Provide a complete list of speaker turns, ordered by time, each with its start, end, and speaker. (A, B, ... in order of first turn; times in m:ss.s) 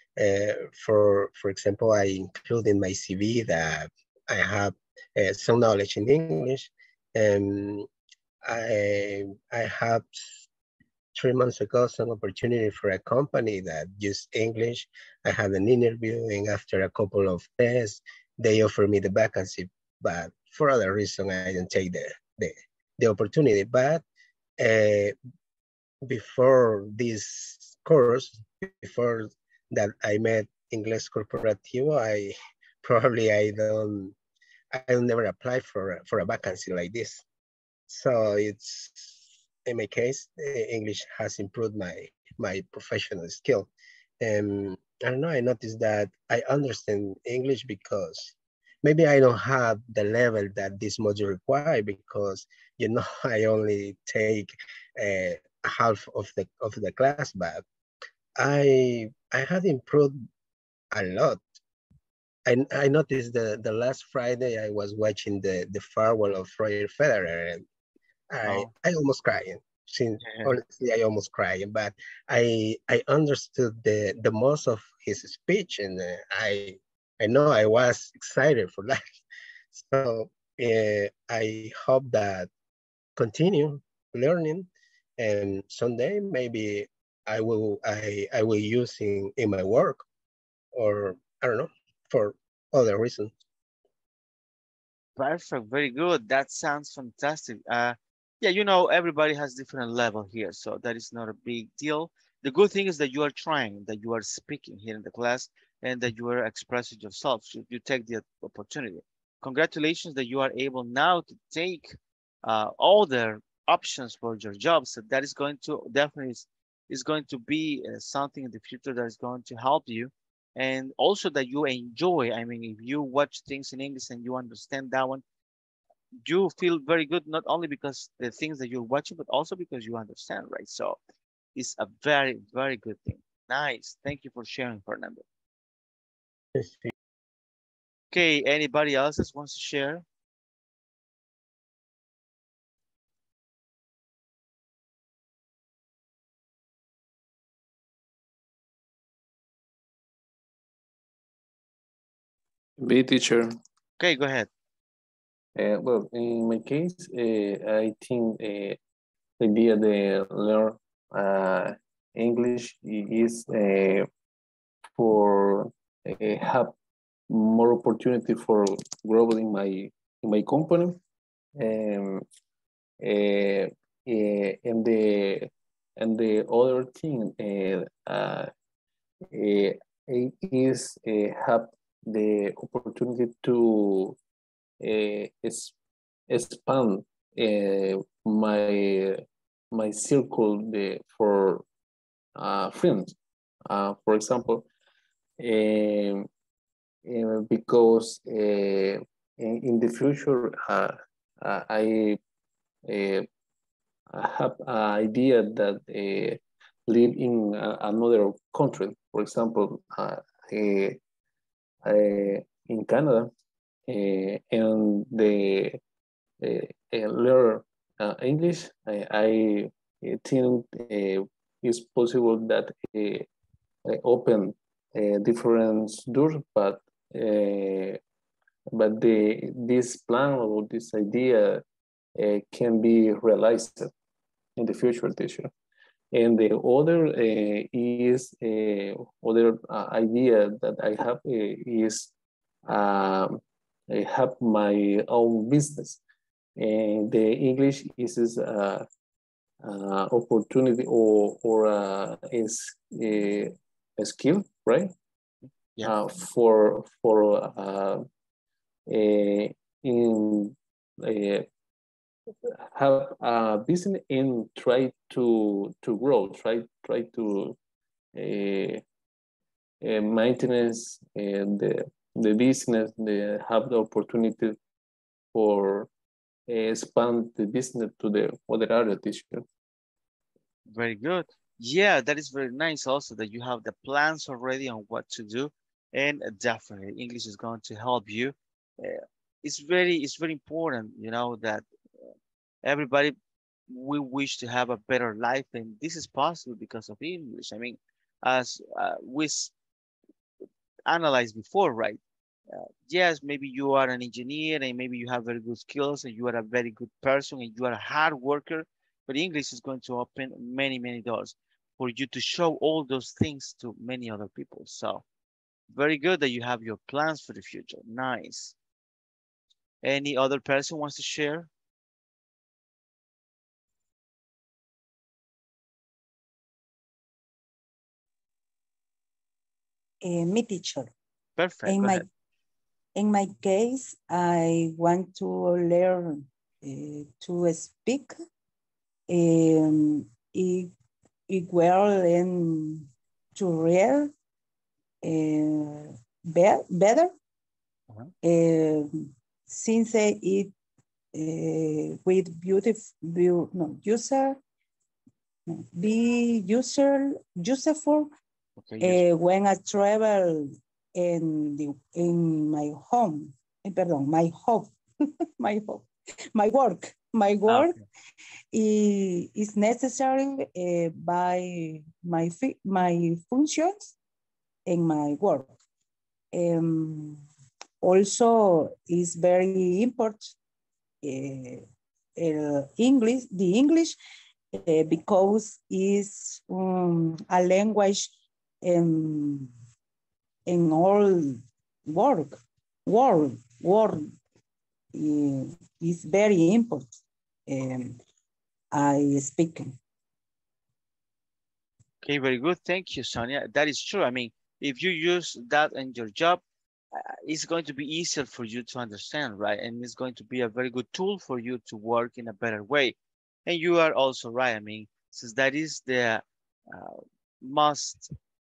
0:00.2-0:07.9 A
0:08.4-0:10.5 A
0:11.1-0:24.0 A
0:24.6-0:25.2 A
0:26.0-0:34.2 A
0:34.7-0:37.2 A
0:37.9-0:39.2 A
0:39.7-0:43.7 A
0:44.2-0:57.6 A
0:58.4-1:00.3 A
1:00.9-1:01.4 A
1:02.5-1:07.7 A
1:08.3-1:19.0 A
1:10.2-1:10.5 B
1:19.7-1:22.5 A
1:23.2-1:30.0 A
1:30.7-1:33.3 A
1:35.2-2:05.2 B
2:06.2-2:11.0 B
2:11.6-2:15.2 B
2:16.6-2:16.9 A
2:18.1-2:20.0 B
2:32.8-2:33.6 C
2:34.0-2:34.5 B
2:35.6-2:38.8 C
2:39.4-2:44.1 C
2:45.0-2:46.8 C
2:47.3-2:51.0 C
2:51.6-2:52.2 C
2:53.0-2:58.5 C
2:59.3-3:04.2 C
3:04.8-3:05.7 C
3:06.3-3:11.6 C
3:12.4-3:13.2 C
3:13.7-3:14.6 C
3:15.4-3:16.3 C
3:17.0-3:22.2 C
3:22.9-3:23.3 C
3:24.1-3:31.0 C
3:31.8-3:33.3 C
3:33.9-3:35.8 C
3:36.4-3:43.3 C
3:43.9-3:48.0 C
3:48.7-3:51.6 C
3:52.2-3:53.9 C
3:54.6-3:55.5 C
3:56.1-4:02.1 C
4:02.7-4:06.0 C
4:06.6-4:08.9 C
4:09.6-4:14.9 C
4:15.8-4:18.1 C
4:18.9-4:21.5 C
4:22.5-4:27.6 C
4:28.2-4:28.8 C
4:29.8-4:34.6 C
4:35.3-4:35.9 C
4:36.5-4:39.5 C
4:40.7-4:51.6 B
4:52.6-4:53.2 B
4:53.7-4:59.5 B
5:00.9-5:02.0 B
5:02.5-5:15.0 B
5:15.7-5:18.6 B
5:19.8-5:21.5 B
5:30.0-5:30.9 D
5:31.4-5:32.1 B
5:31.7-5:32.0 D
5:33.0-5:38.1 D
5:39.1-5:40.7 D
5:41.3-5:44.1 D
5:45.0-5:47.1 D
5:48.2-5:48.9 D
5:49.5-5:50.5 D
5:51.1-5:54.4 D
5:55.6-5:58.1 D
5:58.6-5:59.0 B
5:58.8-6:04.7 D
6:05.4-6:07.8 D
6:07.5-6:07.8 B
6:08.5-6:14.0 D
6:14.7-6:15.5 D
6:16.3-6:17.2 D
6:17.8-6:20.4 D
6:21.0-6:21.6 D
6:22.2-6:24.0 D
6:24.6-6:29.5 D
6:30.5-6:34.1 D
6:34.9-6:37.0 D
6:37.5-6:38.0 D
6:38.7-6:39.8 D
6:42.0-6:46.4 B
6:46.9-6:58.1 B